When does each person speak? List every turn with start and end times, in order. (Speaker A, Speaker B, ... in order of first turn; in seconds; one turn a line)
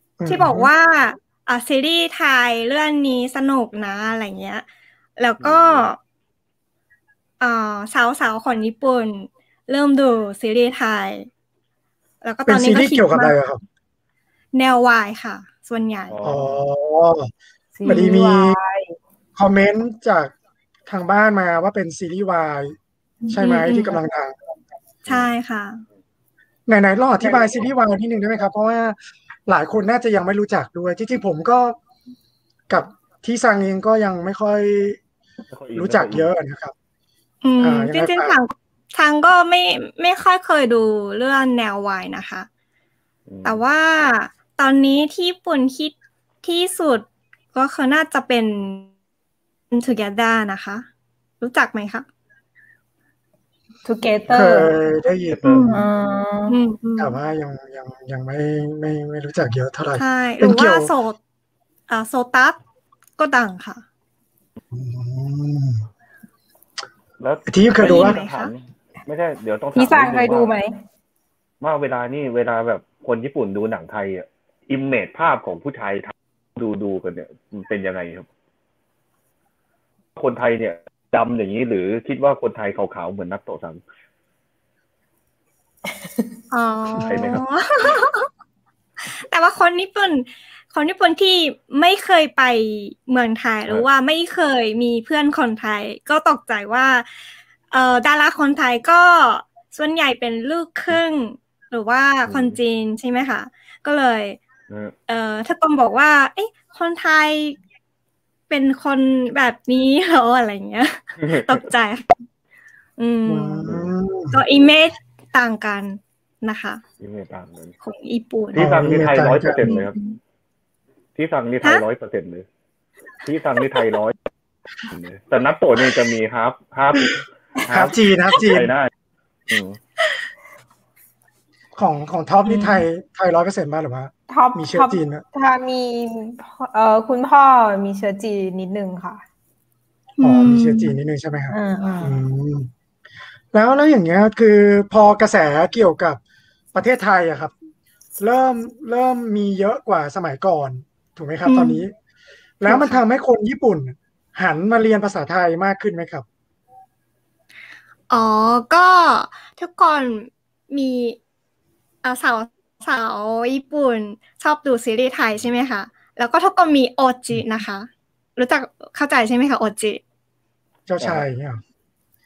Speaker A: 0.2-0.7
Speaker B: 0.3-4.7
Speaker B: 5.2-6.0
Speaker C: 5.4-5.9
Speaker B: 7.4-11.3
Speaker B: 12.2-13.3
Speaker A: 12.5-13.6
Speaker B: 14.5-16.2
Speaker C: 16.1-16.6
Speaker A: 16.2-17.3
Speaker D: 17.8-19.0
Speaker B: 17.9-18.1
Speaker A: 17.9-18.6
Speaker A: 19.4-20.3
Speaker A: 20.9-22.8
Speaker A: 23.3-24.3
Speaker B: 23.3-24.0
Speaker C: 25.1-25.3
Speaker B: 25.1-25.8
Speaker A: 26.7-31.8
Speaker A: 32.7-35.0
Speaker C: 35.5-36.3
Speaker A: 35.7-36.7
Speaker B: 37.4-42.5
Speaker A: 37.6-38.4
Speaker C: 43.3-43.6
Speaker B: 43.5-48.9
Speaker B: 49.7-50.9
Speaker B: 51.4-52.1
Speaker D: 53.9-54.7
Speaker A: 54.3-55.7
Speaker C: 55.3-55.7
Speaker B: 55.4-55.8
Speaker D: 55.7-56.6
Speaker B: 56.5-57.2
Speaker A: 57.0-60.9
Speaker B: 60.0-61.2
Speaker B: 61.9-62.6
Speaker B: 63.2-63.8
Speaker A: 64.7-65.9
Speaker C: 67.2-70.5
Speaker A: 67.5-68.2
Speaker B: 67.8-68.5
Speaker D: 69.8-70.7
Speaker C: 71.6-78.3
Speaker C: 80.2-83.8
Speaker B: 86.5-88.3
Speaker C: 87.0-87.4
Speaker B: 89.2-97.1
Speaker B: 97.7-104.4
Speaker C: 102.3-102.6
Speaker C: 104.7-105.0
Speaker B: 105.1-107.6
Speaker B: 108.5-112.2
Speaker C: 111.2-111.6
Speaker B: 113.0-113.7
Speaker A: 113.3-114.4
Speaker C: 113.7-113.9
Speaker B: 114.3-116.8
Speaker C: 117.0-117.8
Speaker B: 117.8-118.8
Speaker C: 118.5-120.0
Speaker A: 118.6-119.8
Speaker B: 119.5-120.2
Speaker C: 121.2-122.5
Speaker C: 123.2-124.2
Speaker C: 124.9-128.9
Speaker A: 127.7-128.7
Speaker C: 129.5-129.8
Speaker A: 131.8-135.2
Speaker B: 132.5-132.9
Speaker D: 134.3-139.2
Speaker B: 140.2-141.0
Speaker A: 140.2-142.7
Speaker D: 141.5-142.2
Speaker A: 143.5-146.2
Speaker A: 146.7-147.5
Speaker A: 148.2-151.9
Speaker B: 151.4-151.8
Speaker A: 152.6-156.2
Speaker B: 152.7-153.0
Speaker B: 158.1-161.2
Speaker B: 162.0-170.0
Speaker A: 170.9-171.6
Speaker C: 171.0-171.2